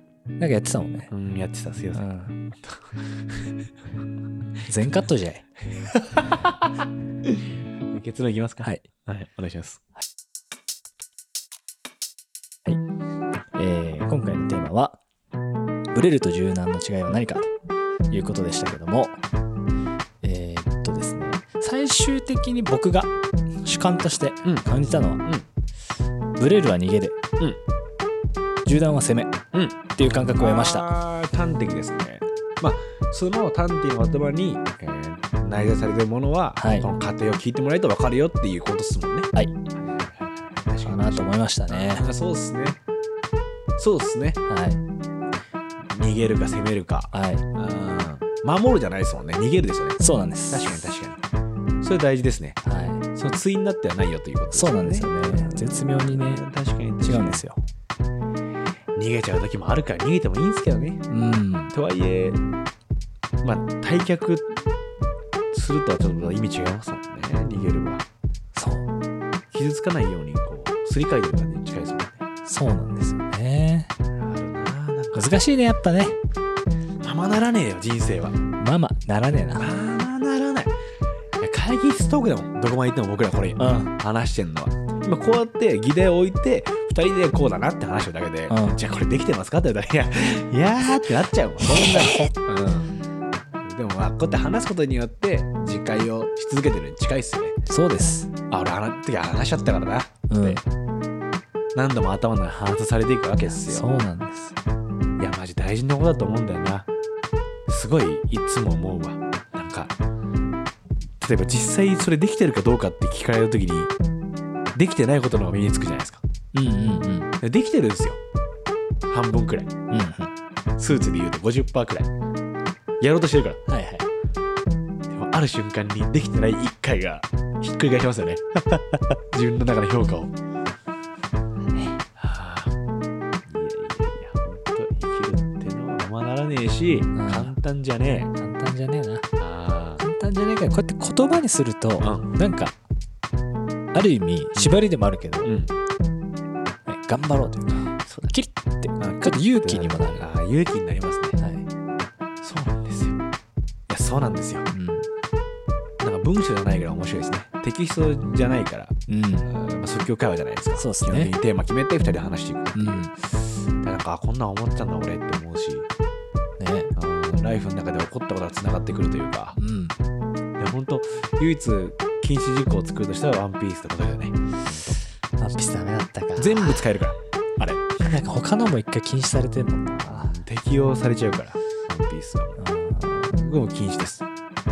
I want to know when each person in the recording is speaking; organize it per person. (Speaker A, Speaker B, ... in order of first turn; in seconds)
Speaker A: 0.4-1.1, 1.9-2.4, 4.7-5.5, 13.5-15.0, 15.9-17.5, 18.1-19.2, 20.2-25.2, 26.4-27.2, 28.6-29.4, 29.9-30.9, 36.6-36.9, 40.8-42.1, 44.5-44.8, 47.1-47.5, 50.0-50.9, 52.6-53.0, 54.5-56.4, 57.0-57.6, 61.1-61.7, 68.5-68.9, 72.4-73.9, 75.1-76.2, 78.6-79.7, 83.6-83.9, 88.5-88.8, 91.6-92.3, 97.7-98.3, 100.3-100.6, 103.4-104.6, 116.5-117.3, 119.9-120.3, 123.7-124.1, 131.7-132.0, 137.1-137.6, 138.3-139.3, 140.0-142.7, 143.9-145.5, 146.9-150.3, 151.4-151.7, 154.7-155.1, 159.1-159.5, 160.8-161.3, 162.7-163.1, 166.6-166.9, 169.6-169.9, 175.4-176.9, 178.0-180.3, 182.6-183.4
Speaker B: 1.1-2.1, 6.1-9.8, 24.4-25.5, 29.5-42.8, 43.8-44.4, 45.9-50.0, 50.5-51.2, 51.8-52.6, 53.1-57.4, 58.9-61.0, 61.7-62.4, 63.4-64.6, 65.5-68.0, 69.5-72.2, 74.2-75.3, 77.0-78.4, 79.5-80.8, 81.4-93.0, 93.6-97.6, 98.5-100.6, 101.7-103.9, 105.2-106.9, 107.7-109.9, 111.2-113.9, 114.7-116.2, 117.4-118.2, 119.1-119.7, 120.8-122.1, 123.0-123.6, 125.1-130.3, 132.2-132.8, 133.5-138.3, 139.4-140.0, 142.0-142.3, 144.5-144.8, 145.4-145.7, 148.0-148.3, 149.0-151.4, 152.4-153.2, 153.9-154.7, 156.0-165.9, 166.9-169.6, 170.6-175.0, 176.4-178.1, 180.0-182.6, 183.3-184.2